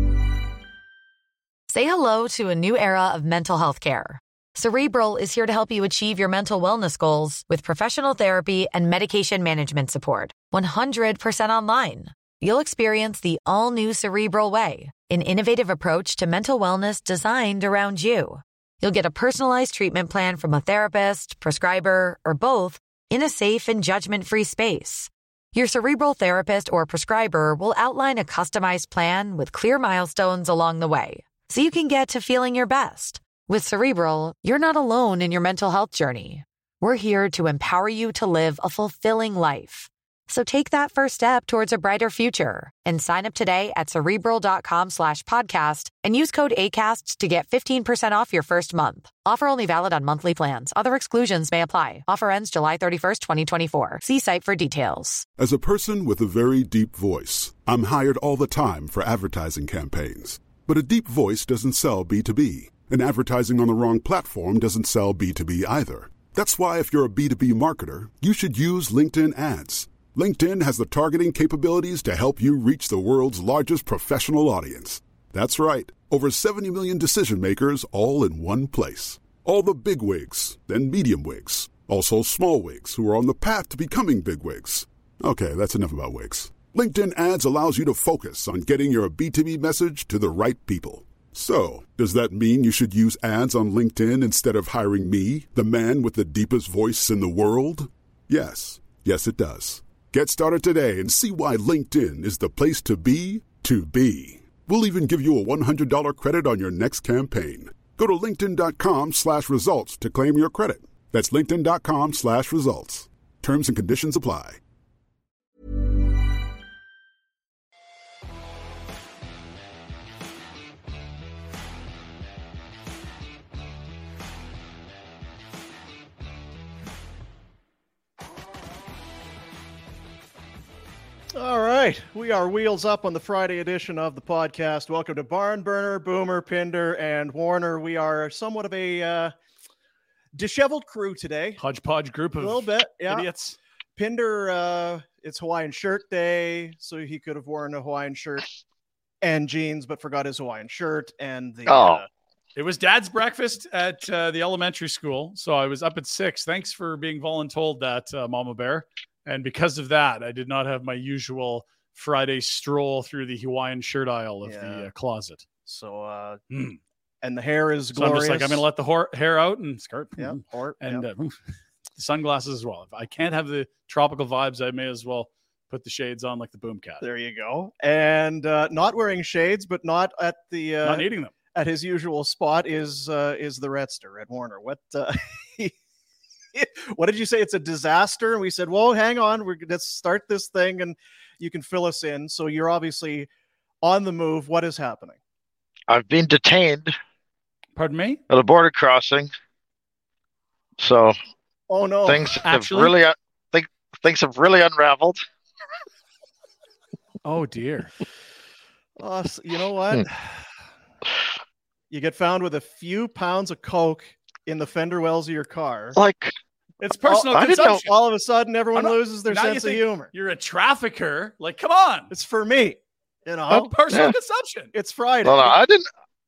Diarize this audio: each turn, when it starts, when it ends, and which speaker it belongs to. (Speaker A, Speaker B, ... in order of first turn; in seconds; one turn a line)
Speaker A: 1.7-55.3
Speaker B: 55.4-114.6
Speaker C: 131.3-139.3
Speaker C: 140.3-141.6
Speaker D: 141.6-143.6
Speaker C: 142.4-143.3
Speaker C: 144.0-148.5
Speaker C: 149.2-152.1
Speaker E: 151.7-152.0
Speaker D: 152.6-165.4
Speaker C: 164.4-164.9
Speaker C: 165.7-166.4
Speaker D: 166.5-166.8
Speaker C: 167.2-168.6
Speaker D: 168.0-171.4
Speaker C: 170.2-171.1
Speaker D: 172.0-177.0
Speaker C: 177.0-185.8
Speaker D: 180.8-181.3
Speaker C: 186.5-193.3
Speaker C: 193.8-195.2
Speaker E: 195.9-196.9
Speaker D: 197.8-198.2
Speaker E: 198.3-199.3
Speaker E: 200.8-201.2
Speaker C: 201.7-202.3
Speaker E: 202.1-205.2
Speaker D: 202.4-202.9
Speaker D: 207.2-207.9
Speaker C: 209.0-210.1
Speaker C: 211.9-216.0
Speaker E: 215.9-216.3
Speaker D: 216.8-217.9
Speaker E: 217.1-217.8
Speaker C: 217.6-220.1
Speaker D: 218.8-222.1
Speaker C: 222.1-223.7
Speaker D: 223.5-224.7
Speaker C: 224.7-225.6
Speaker E: 225.2-225.9